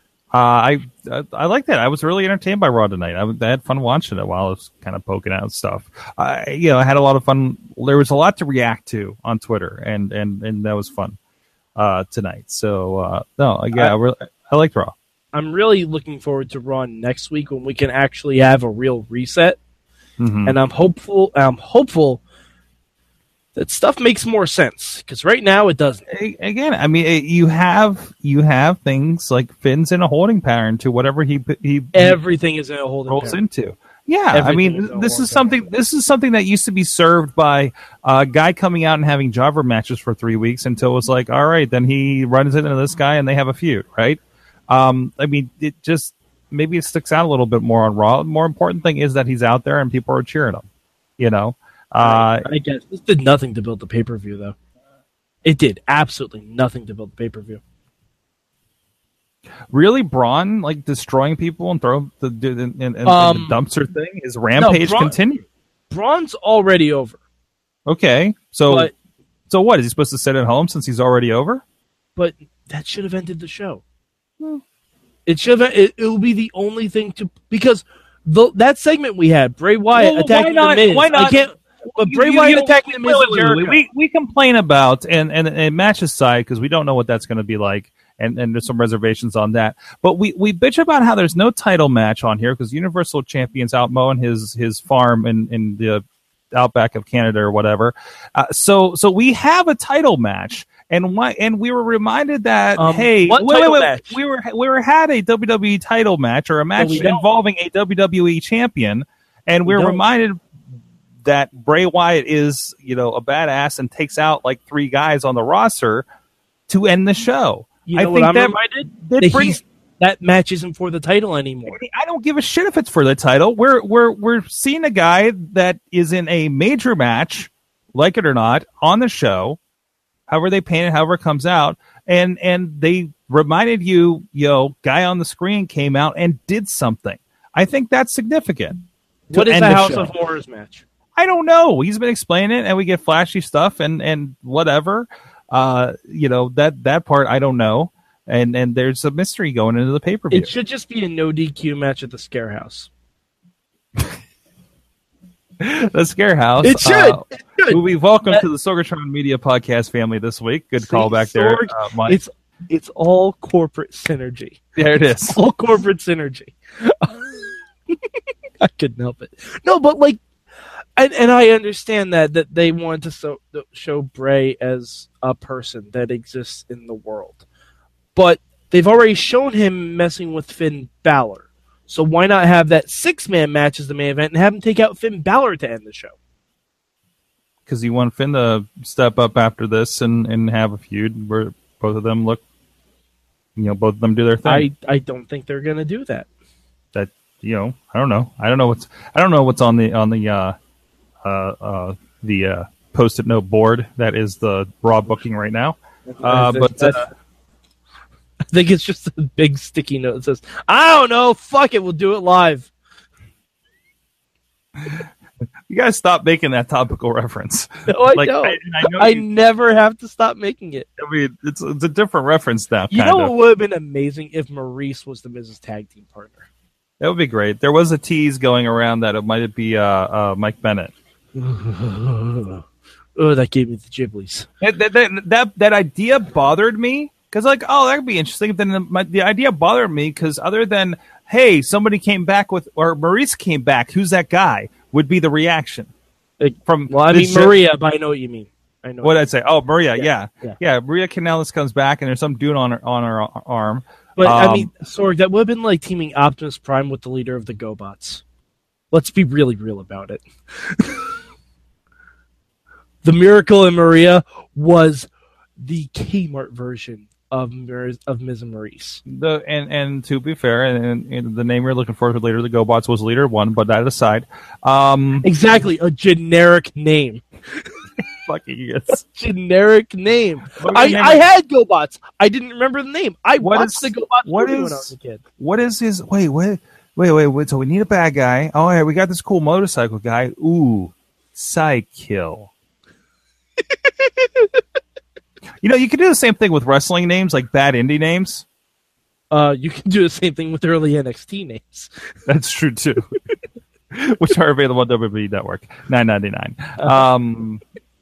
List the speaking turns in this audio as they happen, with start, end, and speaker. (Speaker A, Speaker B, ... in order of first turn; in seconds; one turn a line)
Speaker A: 0.3-11.2
Speaker A: 11.8-14.9
Speaker B: 15.3-19.6
Speaker A: 20.2-20.6
Speaker B: 20.5-22.2
Speaker B: 23.6-26.0
Speaker A: 26.1-32.2
Speaker B: 31.9-33.4
Speaker A: 33.1-50.6
Speaker B: 34.3-35.7
Speaker A: 51.2-52.5
Speaker B: 52.0-54.5
Speaker B: 55.5-57.6
Speaker A: 59.7-65.4
Speaker B: 63.1-63.6
Speaker B: 64.6-65.2
Speaker B: 65.9-67.2
Speaker A: 67.9-68.9
Speaker A: 69.5-71.6
Speaker B: 72.2-73.8
Speaker B: 75.3-83.8
Speaker A: 79.9-81.4
Speaker A: 82.0-96.0
Speaker A: 96.5-110.4
Speaker B: 102.8-104.2
Speaker B: 106.8-107.2
Speaker B: 109.7-110.0
Speaker A: 111.2-116.1
Speaker A: 116.7-119.6
Speaker B: 117.9-121.8
Speaker A: 121.7-129.6
Speaker A: 130.3-138.8
Speaker B: 139.3-140.8
Speaker A: 139.3-140.1
Speaker A: 141.2-150.5
Speaker B: 150.3-152.9
Speaker A: 155.6-162.2
Speaker B: 156.6-158.4
Speaker B: 160.8-168.0
Speaker A: 164.8-165.4
Speaker B: 168.6-170.2
Speaker B: 171.0-177.4
Speaker B: 178.2-186.2
Speaker A: 187.7-192.4
Speaker A: 193.6-194.7
Speaker B: 194.4-196.3
Speaker A: 196.9-200.6
Speaker A: 201.2-207.1
Speaker B: 206.1-207.1
Speaker B: 208.5-212.7
Speaker A: 214.8-215.1
Speaker A: 215.7-219.2
Speaker B: 217.9-220.9
Speaker A: 221.0-223.3
Speaker B: 222.9-226.5
Speaker A: 227.0-230.9
Speaker B: 231.3-232.6
Speaker B: 233.2-234.5
Speaker A: 234.6-245.9
Speaker B: 246.4-249.3
Speaker A: 246.7-247.5
Speaker A: 249.0-254.7
Speaker B: 249.9-250.6
Speaker B: 254.2-258.2
Speaker B: 258.9-261.2
Speaker B: 263.0-269.0
Speaker A: 269.1-275.3
Speaker B: 275.2-277.2
Speaker A: 278.3-279.0
Speaker B: 279.0-285.2
Speaker A: 280.6-281.2
Speaker A: 283.4-292.5
Speaker B: 293.9-294.6
Speaker A: 295.6-298.5
Speaker B: 299.3-301.9
Speaker A: 302.3-303.0
Speaker A: 303.9-307.6
Speaker B: 306.8-307.1